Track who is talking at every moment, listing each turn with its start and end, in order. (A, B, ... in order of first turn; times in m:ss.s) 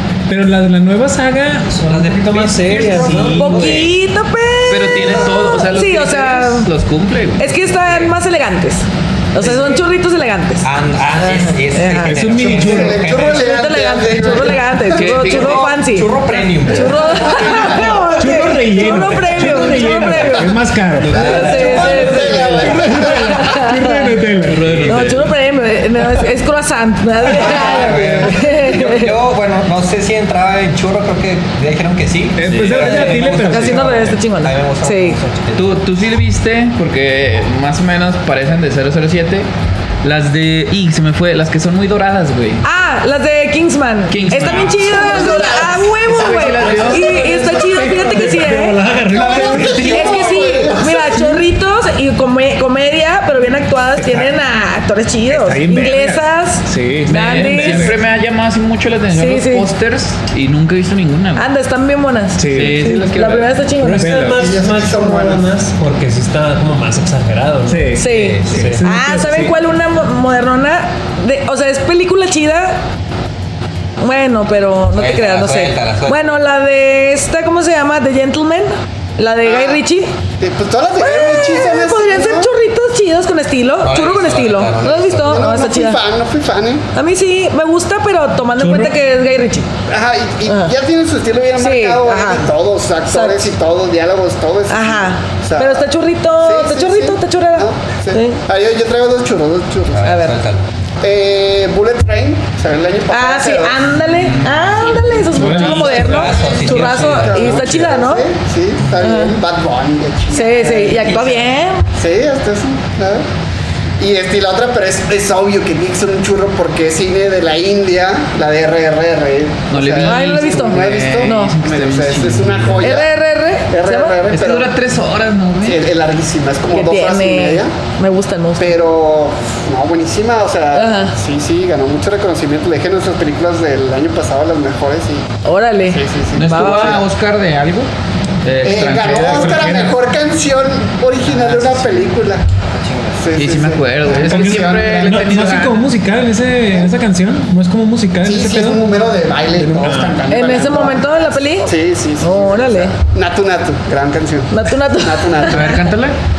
0:00.3-0:01.8 A
0:01.7-0:03.9 B
0:01.9-0:03.9 C
0:02.7-0:03.8 A
0:03.2-0:06.7 D
0:04.7-0:08.1 E
0:07.4-0:10.7 D
0:10.6-0:13.5 C
0:11.2-0:12.4 D
0:12.0-0:13.1 A
0:12.3-0:14.9 F
0:13.3-0:20.6 D
0:14.9-0:15.8 E
0:15.2-0:17.7 C
0:17.2-0:17.9 F
0:18.1-0:21.3 A
0:21.0-0:22.7 C
0:21.1-0:24.2 D
0:21.1-0:23.4 F
0:22.5-0:25.1 A
0:24.5-0:25.2 E
0:24.8-0:29.1 D
0:27.2-0:35.8 C
0:27.5-0:28.3 F
0:32.4-0:34.2 A
0:32.4-0:33.2 E
0:33.2-0:35.2 D
0:35.6-0:39.5 E
0:40.0-0:42.6 E
0:42.6-0:57.9 D
0:44.1-0:47.2 E
0:44.8-0:47.6 F
0:46.6-0:47.0 B
0:47.5-0:50.1 A
0:48.3-0:49.1 B
0:49.1-0:51.3 F
0:54.0-0:54.4 A
0:55.3-0:58.0 A
0:57.1-1:01.5 E
0:59.1-0:59.7 D
1:01.4-1:04.2 D
1:02.4-1:02.9 A
1:02.5-1:03.5 E
1:03.8-1:08.0 B
1:04.0-1:04.5 A
1:04.4-1:05.5 F
1:07.7-1:09.6 A
1:08.0-1:12.8 D
1:08.1-1:08.7 C
1:08.5-1:08.8 B
1:14.0-1:20.1 D
1:14.9-1:16.4 C
1:19.4-1:19.8 F
1:20.4-1:22.5 F
1:21.0-1:26.0 D
1:23.8-1:25.5 C
1:25.2-1:26.9 F
1:26.9-1:29.7 D
1:28.6-1:29.0 A
1:29.9-1:40.3 F
1:30.5-1:30.7 D
1:31.6-1:32.5 D
1:33.1-1:33.5 D
1:34.7-1:38.4 D
1:39.9-1:40.6 C
1:40.1-1:40.3 D
1:41.0-1:43.8 F
1:43.1-1:48.3 D
1:44.1-1:44.5 E
1:44.7-1:51.4 F
1:45.3-1:46.4 A
1:45.8-1:47.9 C
1:49.0-1:49.4 D
1:50.3-1:51.9 D
1:51.9-1:53.2 F
1:54.0-2:03.1 F
1:59.7-2:02.9 E
2:00.0-2:01.6 D
2:02.8-2:04.2 D
2:03.7-2:04.8 F
2:04.3-2:05.9 E
2:05.6-2:07.7 F
2:06.7-2:08.7 D
2:08.6-2:15.3 F
2:10.7-2:11.2 D
2:15.4-2:17.0 D
2:15.9-2:17.0 F
2:16.4-2:17.9 E
2:18.4-2:19.6 E
2:18.6-2:22.4 F
2:19.3-2:20.0 A
2:21.3-2:22.0 C
2:22.6-2:23.2 C
2:23.2-2:25.5 F
2:23.3-2:25.8 E
2:24.2-2:28.8 A
2:28.2-2:35.9 F
2:29.6-2:30.3 A
2:30.3-2:33.0 D
2:34.5-2:35.7 D
2:35.5-2:36.2 E